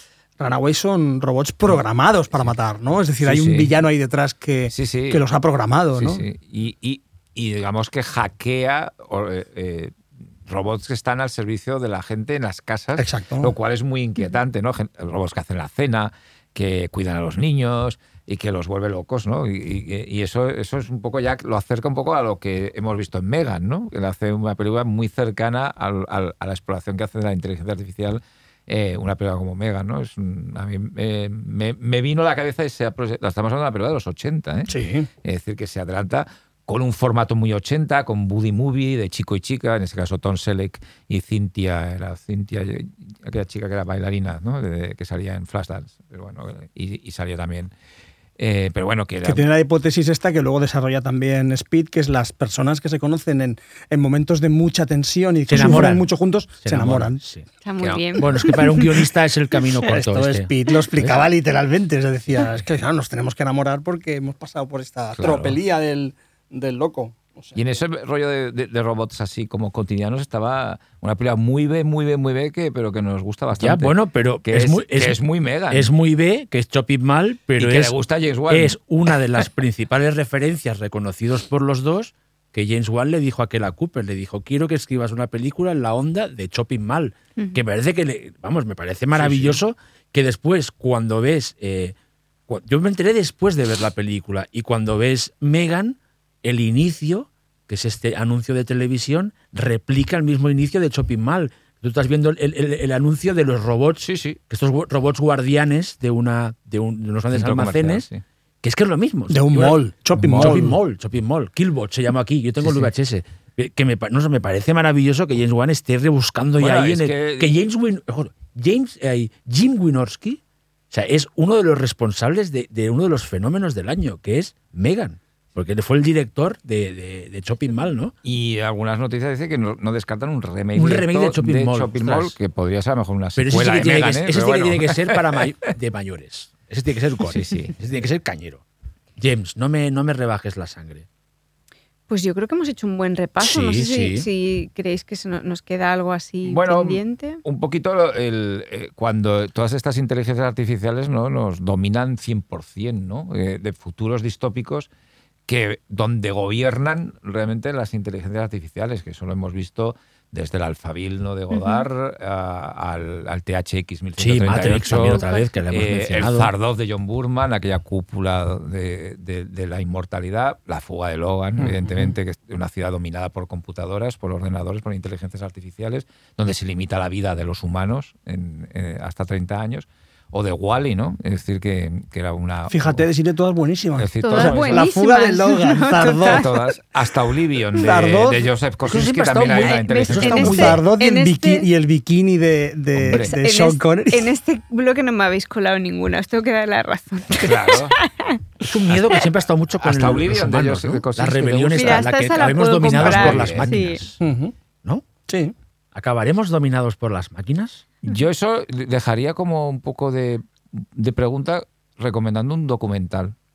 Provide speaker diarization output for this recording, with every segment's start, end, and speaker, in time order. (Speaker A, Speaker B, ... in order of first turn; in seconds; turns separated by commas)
Speaker A: 0.4-6.2, Speaker B: 3.2-3.7, Speaker B: 4.7-5.2, Speaker B: 6.0-47.7, Speaker A: 13.0-13.6, Speaker A: 34.7-35.1, Speaker B: 48.4-49.5, Speaker A: 49.2-57.2, Speaker C: 55.5-56.1, Speaker C: 56.6-57.5, Speaker D: 57.6-59.0, Speaker B: 57.8-58.3, Speaker C: 58.2-61.2, Speaker A: 59.9-67.6, Speaker B: 65.2-65.6, Speaker B: 67.5-73.9, Speaker C: 73.5-77.9, Speaker B: 74.5-75.9, Speaker B: 77.6-78.8, Speaker C: 78.5-91.9, Speaker B: 89.1-89.6, Speaker C: 92.5-108.1, Speaker B: 104.0-104.4, Speaker B: 107.3-108.2, Speaker C: 108.6-120.4, Speaker A: 109.3-110.8, Speaker B: 110.2-110.6, Speaker B: 116.6-117.5, Speaker C: 120.9-128.1, Speaker B: 128.2-135.4, Speaker C: 130.7-132.3, Speaker C: 133.3-138.6, Speaker B: 137.3-137.7, Speaker C: 139.2-141.1, Speaker D: 142.1-147.4, Speaker C: 143.4-144.3, Speaker B: 146.4-154.9, Speaker B: 155.5-183.0, Speaker D: 161.5-161.9, Speaker C: 164.2-166.5, Speaker D: 164.8-165.5, Speaker C: 171.6-172.1, Speaker A: 182.7-186.4, Speaker B: 184.0-184.9, Speaker D: 184.2-186.4, Speaker B: 186.1-190.8, Speaker A: 187.7-188.5, Speaker C: 188.8-190.8, Speaker D: 189.5-191.7, Speaker A: 190.4-194.3, Speaker B: 192.9-193.3, Speaker D: 193.2-198.4, Speaker B: 197.3-198.0, Speaker C: 198.6-204.2, Speaker B: 199.8-202.1, Speaker D: 201.7-204.0, Speaker B: 202.9-203.8, Speaker A: 204.2-204.5, Speaker A: 205.3-205.5, Speaker C: 205.9-207.8, Speaker B: 208.0-213.3